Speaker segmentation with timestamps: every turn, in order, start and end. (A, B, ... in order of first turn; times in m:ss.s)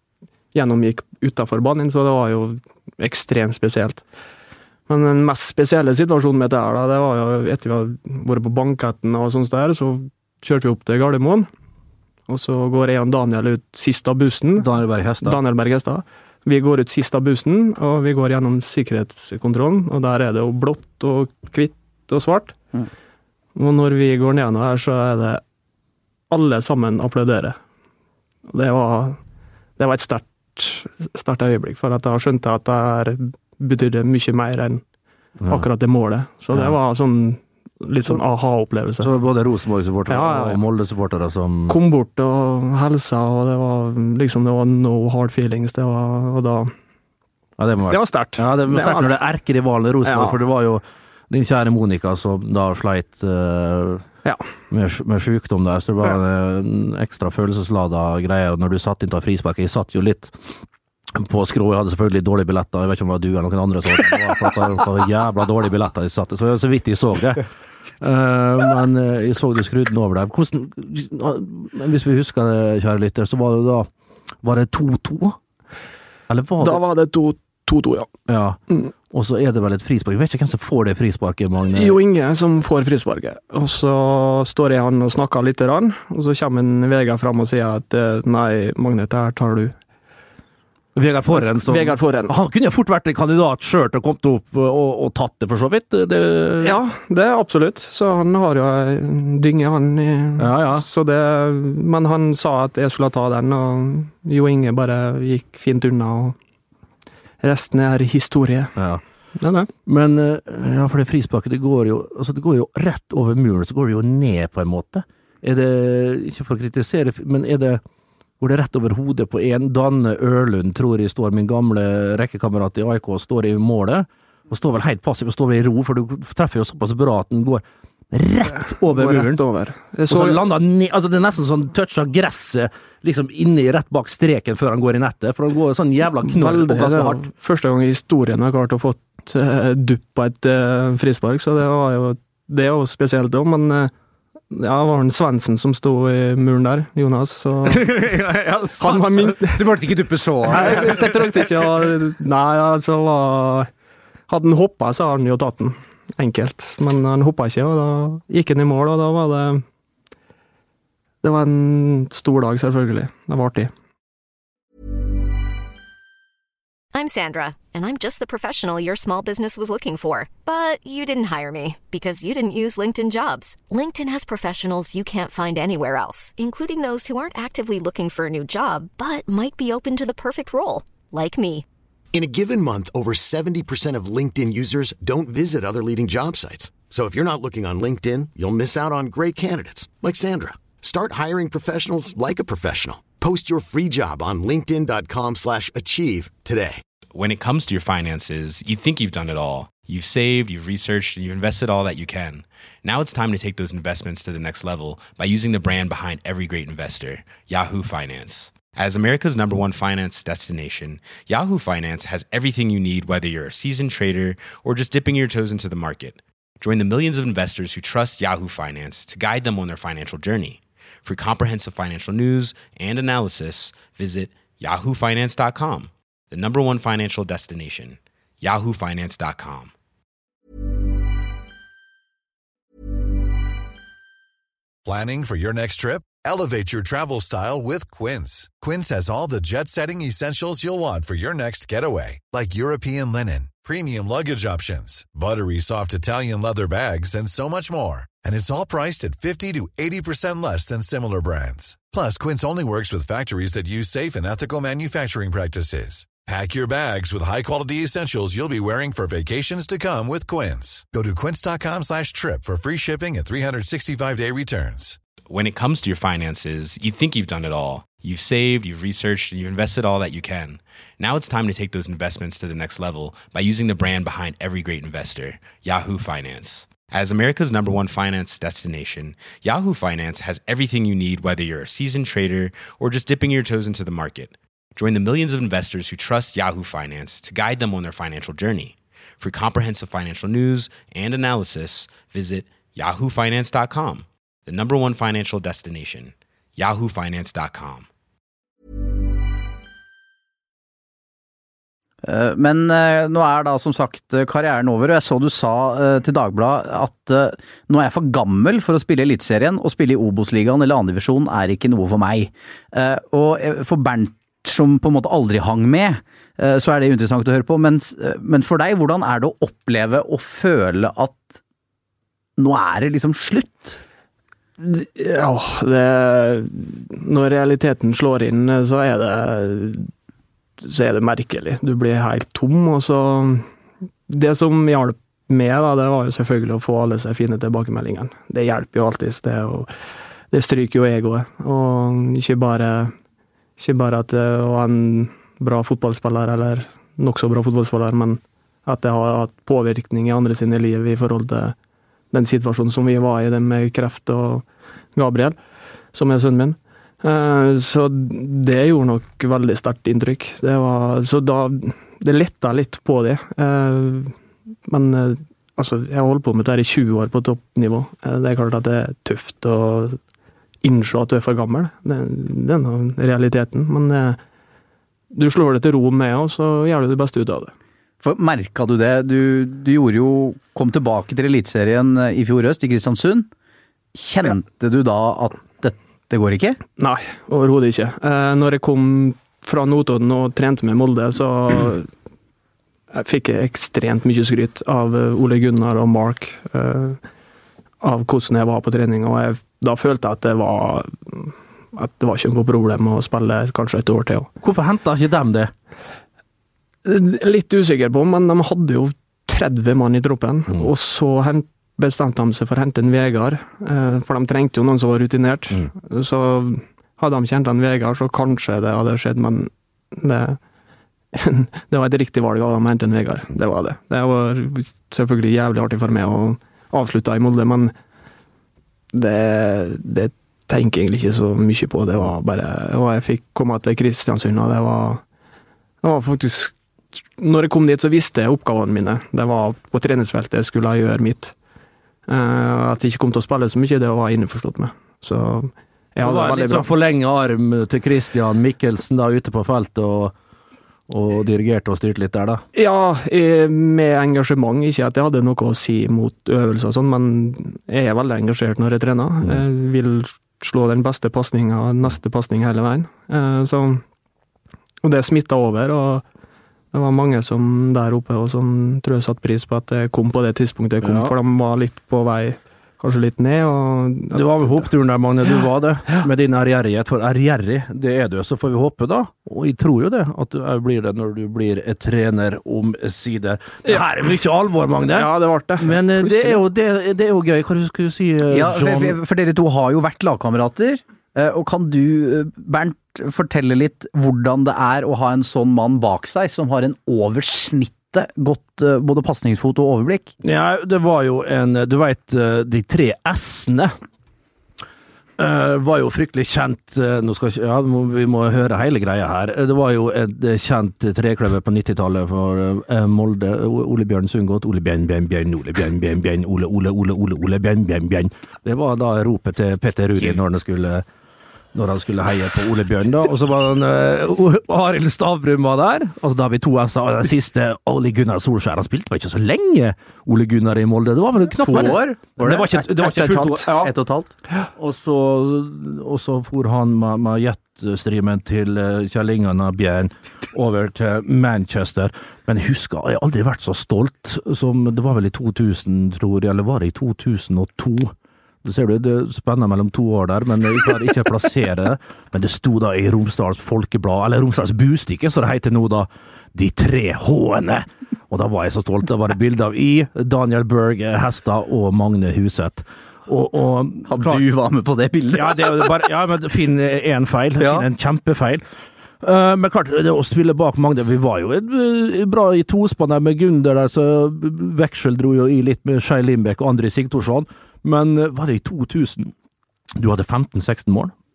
0:00.5-0:04.0 A
0:04.9-0:11.5 A
0:12.3-0:14.7 A
0:14.6-0:15.4 B
0:15.2-0:22.6 A
0:23.6-0:25.4 A
0:26.3-0:27.6 A
0:28.5-0:29.2 A
0:29.8-0:34.8 A
0:35.4-0:35.7 B
0:35.5-0:39.1 A
0:39.0-0:41.8 B
0:40.1-0:40.6 A
0:41.7-0:46.7 A
0:47.6-0:54.0 B
0:47.9-0:49.2 A
0:50.0-0:50.4 A
0:54.7-1:00.6 B
1:01.1-1:07.5 B
1:08.0-1:13.9 B
1:14.4-1:15.4 B
1:16.3-1:16.8 B
1:16.6-1:18.1 A
1:18.3-1:22.0 B
1:21.7-1:29.8 A
1:31.0-1:36.8 B
1:31.3-1:32.4 A
1:36.6-1:46.4 A
1:40.4-1:40.8 B
1:47.4-1:48.8 A
1:48.8-1:49.0 B
1:49.4-1:49.7 A
1:49.8-1:57.8 B
1:58.4-2:09.4 B
2:08.6-2:10.4 A
2:10.1-2:17.2 B
2:16.2-2:23.9 A
2:24.5-2:27.9 A
2:27.7-2:31.1 B
2:28.8-2:29.7 A
2:29.4-2:30.7 C
2:30.5-2:33.7 A
2:34.3-2:39.6 A
2:41.2-2:43.7 A
2:46.9-3:01.6 D
3:02.1-3:16.8 E
3:17.1-3:49.7 F
3:54.8-4:25.0 G
4:25.3-4:57.9 F
5:02.0-5:21.4 C
5:22.4-5:23.8 C
5:24.6-5:29.9 A
5:30.6-5:33.5 A
5:34.1-5:39.7 A
5:40.3-5:42.9 A
5:43.6-5:51.6 A
5:52.1-5:55.4 A
5:55.9-6:04.2 A
6:04.7-6:10.0 A
6:10.6-6:14.2 A
6:15.1-6:17.5 A
6:18.0-6:23.3 C
6:24.0-6:26.6 C
6:26.8-6:31.9 A
6:32.9-6:37.0 A
6:37.8-6:44.3 A
6:44.4-6:45.5 B
6:46.8-7:00.4 A
7:01.1-7:07.7 A
7:08.9-7:15.0 A
7:15.8-7:21.4 A
7:22.1-7:26.7 A
7:26.0-7:30.2 B
7:30.9-7:32.4 B
7:32.5-7:43.8 A
7:44.8-7:46.0 A
7:46.7-7:54.7 A
7:50.8-7:51.1 B
7:54.1-8:09.0 B
8:04.9-8:06.4 A
8:08.3-8:20.1 C
8:20.2-8:23.7 B
8:25.2-8:40.9 B
8:41.5-8:53.5 B
8:51.4-8:52.7 C
8:52.8-8:53.7 A
8:53.5-8:54.1 C
8:54.6-9:24.2 B
9:23.9-9:25.8 C
9:25.1-9:28.4 B
9:27.4-9:27.7 C
9:29.0-9:39.1 B
9:39.8-9:40.9 B